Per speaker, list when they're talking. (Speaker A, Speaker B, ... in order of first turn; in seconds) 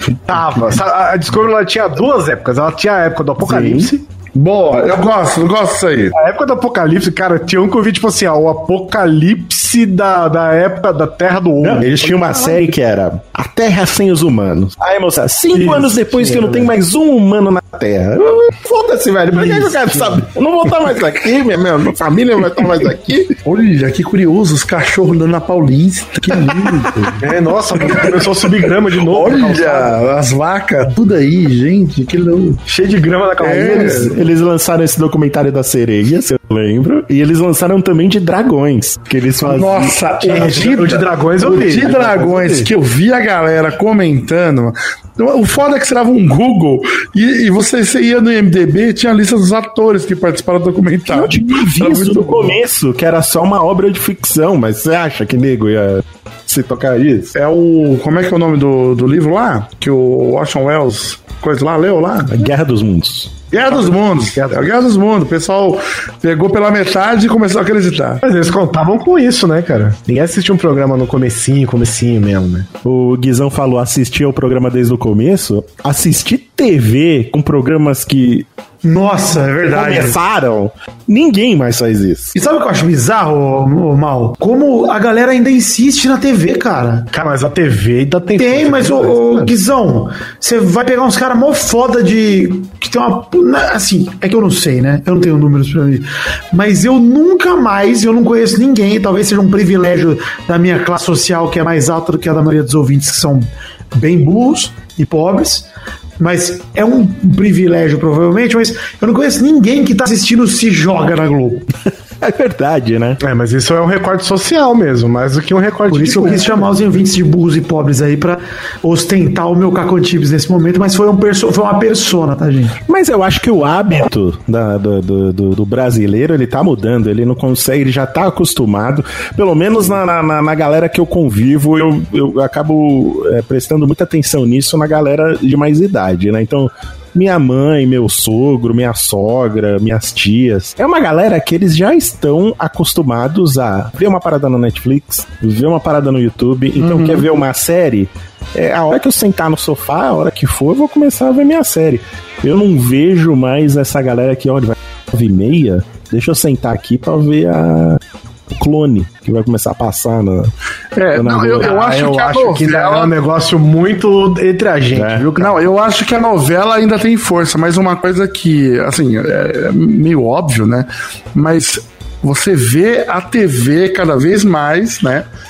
Speaker A: 0.3-4.0, 6.1-12.6, 15.5-16.7, 19.3-20.3, 27.2-30.0, 32.7-34.1, 40.2-42.7, 68.2-72.7, 87.1-89.5, 113.2-116.7, 161.6-165.6
Speaker B: 3.4-3.9, 11.6-23.4, 34.0-40.0, 51.1-57.3, 62.3-63.4, 72.8-78.5, 79.6-82.3, 112.2-113.2, 122.9-158.0, 158.5-160.5, 161.1-161.7, 164.9-165.3
Speaker C: 4.3-6.2, 23.4-27.2, 27.8-32.6, 33.4-34.2, 39.4-52.6, 57.3-62.5, 63.5-68.2, 160.9-163.1, 165.4-175.3
Speaker D: 78.8-80.2, 82.3-87.1, 88.4-105.7, 106.2-111.7, 115.9-122.8